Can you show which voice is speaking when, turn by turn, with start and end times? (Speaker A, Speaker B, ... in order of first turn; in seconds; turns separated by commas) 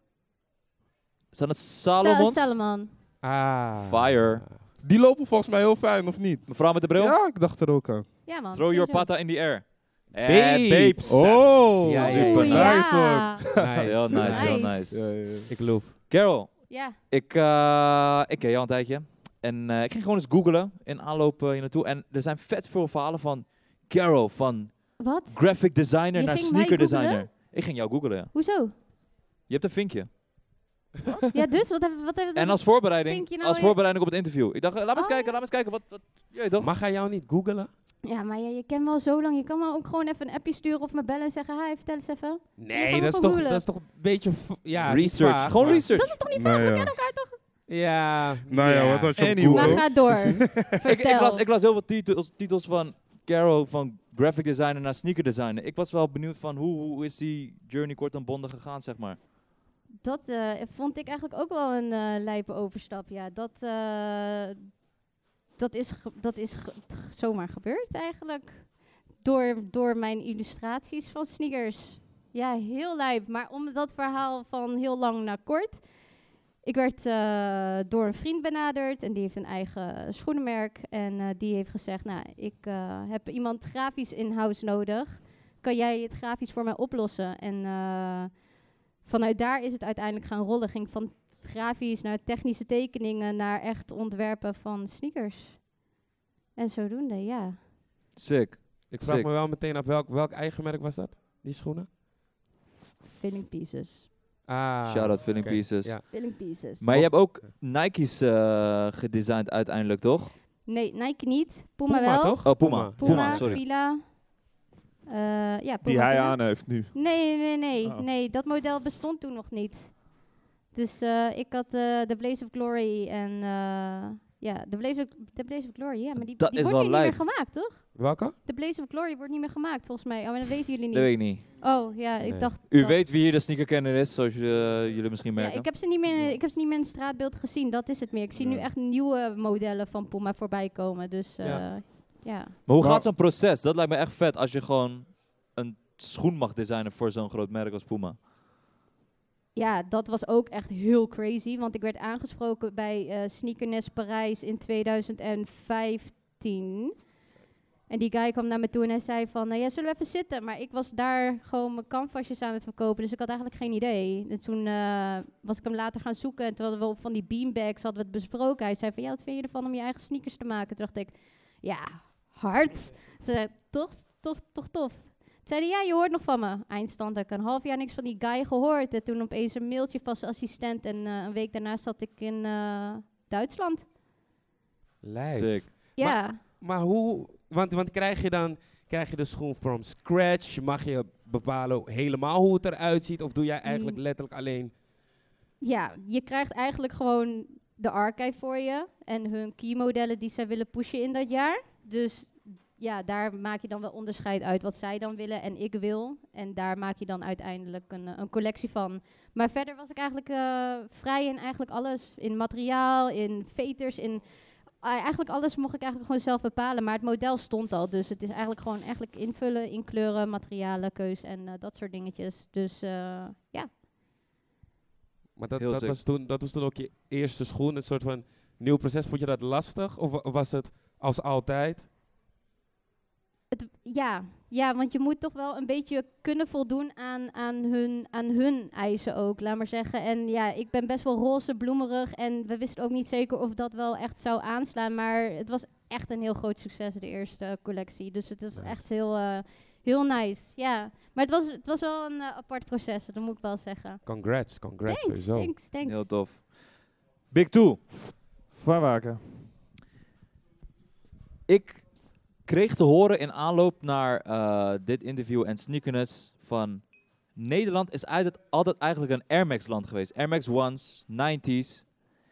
Speaker A: 1.3-2.5, Speaker B: 1.9-2.9, Speaker C: 3.2-4.6, Speaker A: 3.8-4.4, Speaker D: 4.8-8.1, Speaker A: 6.5-7.2, Speaker B: 8.2-9.1, Speaker A: 8.5-12.8, Speaker C: 10.2-12.8, Speaker D: 11.1-13.6, Speaker B: 11.9-13.4, Speaker C: 13.6-15.9, Speaker E: 13.6-14.3, Speaker A: 13.8-15.4, Speaker B: 14.2-14.9, Speaker D: 14.9-15.6, Speaker A: 16.0-28.3, Speaker B: 16.7-17.0, Speaker B: 25.0-27.5, Speaker B: 28.3-28.8, Speaker A: 29.5-30.1, Speaker B: 31.3-33.8, Speaker A: 32.3-36.7, Speaker B: 34.9-35.4, Speaker C: 36.6-37.7, Speaker B: 38.0-43.6, Speaker C: 42.6-45.9, Speaker A: 44.8-46.2, Speaker B: 45.9-47.4, Speaker D: 46.3-46.9, Speaker C: 47.7-49.1, Speaker D: 48.5-50.1, Speaker E: 49.1-50.6, Speaker B: 49.5-51.4, Speaker A: 50.9-59.2, Speaker B: 60.0-64.7, Speaker B: 65.5-75.9, Speaker B: 76.6-88.5, Speaker B: 89.0-95.7, Speaker B: 96.5-97.6, Speaker A: 98.2-99.3, Speaker C: 98.9-101.9, Speaker B: 103.2-104.1, Speaker C: 104.5-107.5, Speaker A: 104.9-110.3, Speaker B: 106.1-106.9, Speaker B: 110.6-114.2, Speaker C: 111.9-113.6, Speaker A: 112.4-113.6, Speaker B: 115.1-120.1, Speaker E: 115.8-118.1, Speaker B: 120.7-133.0, Speaker A: 126.4-127.2, Speaker C: 127.9-128.4, Speaker A: 130.9-131.5, Speaker C: 132.2-132.5, Speaker A: 132.7-135.7, Speaker B: 135.4-142.6, Speaker C: 141.4-141.9, Speaker A: 142.7-148.2, Speaker B: 149.5-156.9, Speaker B: 157.9-183.9, Speaker C: 185.0-194.7, Speaker A: 185.3-185.7, Speaker B: 186.0-186.4, Speaker B: 193.6-194.0, Speaker B: 195.6-223.7, Speaker C: 225.4-231.9, Speaker A: 225.6-226.0, Speaker B: 233.5-256.1, Speaker C: 248.6-248.9, Speaker C: 254.0-255.6, Speaker A: 255.8-257.9, Speaker E: 258.5-259.5, Speaker A: 261.5-271.9